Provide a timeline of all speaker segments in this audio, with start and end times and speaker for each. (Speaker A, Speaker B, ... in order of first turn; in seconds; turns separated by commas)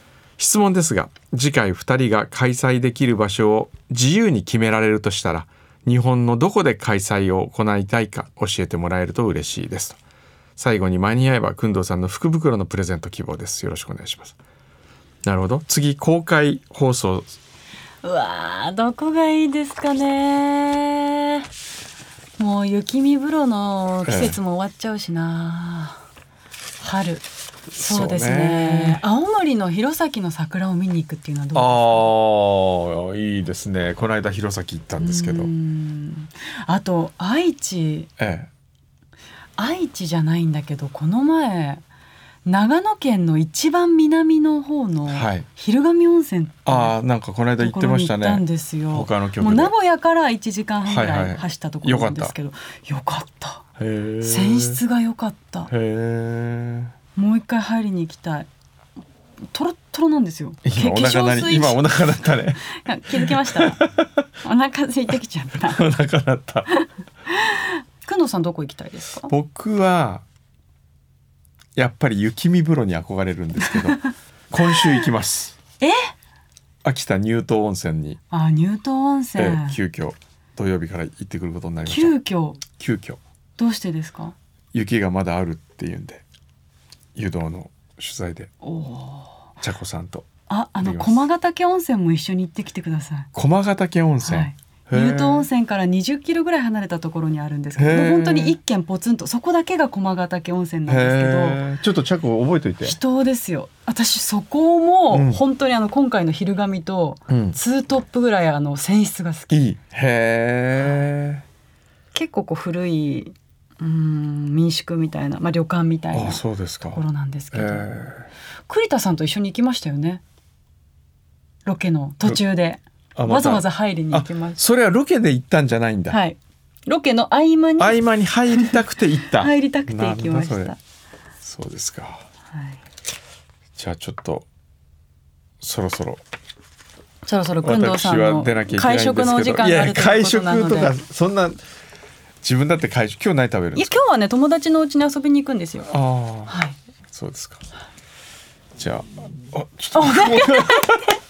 Speaker A: 0.4-10.0, Speaker A: 10.6-14.4, Speaker A: 15.2-17.3, Speaker B: 18.0-21.5, Speaker B: 22.4-26.0, Speaker A: 24.1-24.4, Speaker B: 26.8-27.3, Speaker A: 27.7-29.0, Speaker B: 27.8-32.1, Speaker A: 31.6-35.5, Speaker B: 35.0-38.1, Speaker A: 38.2-38.5, Speaker B: 39.6-41.8, Speaker B: 42.5-46.9, Speaker A: 45.1-45.5, Speaker A: 46.7-49.7, Speaker B: 47.6-53.6, Speaker A: 50.9-52.3, Speaker A: 53.8-54.8, Speaker B: 54.2-55.7, Speaker A: 55.7-56.9, Speaker B: 57.2-58.5, Speaker B: 59.5-61.8, Speaker A: 60.6-64.2, Speaker B: 62.7-63.8, Speaker B: 64.4-65.9, Speaker A: 65.6-66.7, Speaker B: 66.7-69.3, Speaker A: 69.3-70.2, Speaker A: 71.8-75.6, Speaker A: 76.8-78.2, Speaker B: 78.3-79.8, Speaker A: 79.4-82.2, Speaker B: 81.8-82.6, Speaker A: 82.7-83.2, Speaker B: 83.6-84.3, Speaker A: 84.7-86.2, Speaker A: 87.2-88.5, Speaker B: 88.6-89.4, Speaker A: 89.6-90.3, Speaker B: 90.5-93.3, Speaker A: 90.8-91.3, Speaker A: 93.3-95.5, Speaker B: 94.2-101.6, Speaker A: 97.8-98.6, Speaker A: 100.9-103.0, Speaker B: 102.8-109.5, Speaker A: 105.1-105.4, Speaker A: 107.3-107.6, Speaker A: 109.5-111.4, Speaker B: 112.1-117.9, Speaker A: 116.1-118.3, Speaker B: 118.7-120.2, Speaker B: 121.7-124.6, Speaker A: 123.2-126.2, Speaker B: 126.1-128.8, Speaker A: 127.8-130.7, Speaker B: 129.3-130.8, Speaker A: 131.4-132.2, Speaker B: 132.5-132.8, Speaker A: 133.8-134.5, Speaker A: 135.6-136.2, Speaker B: 137.3-140.9, Speaker A: 137.6-141.6, Speaker A: 142.4-144.0, Speaker B: 143.8-145.9, Speaker A: 145.9-146.6, Speaker B: 146.5-146.8, Speaker A: 147.1-147.6, Speaker A: 148.8-151.2, Speaker B: 149.9-151.1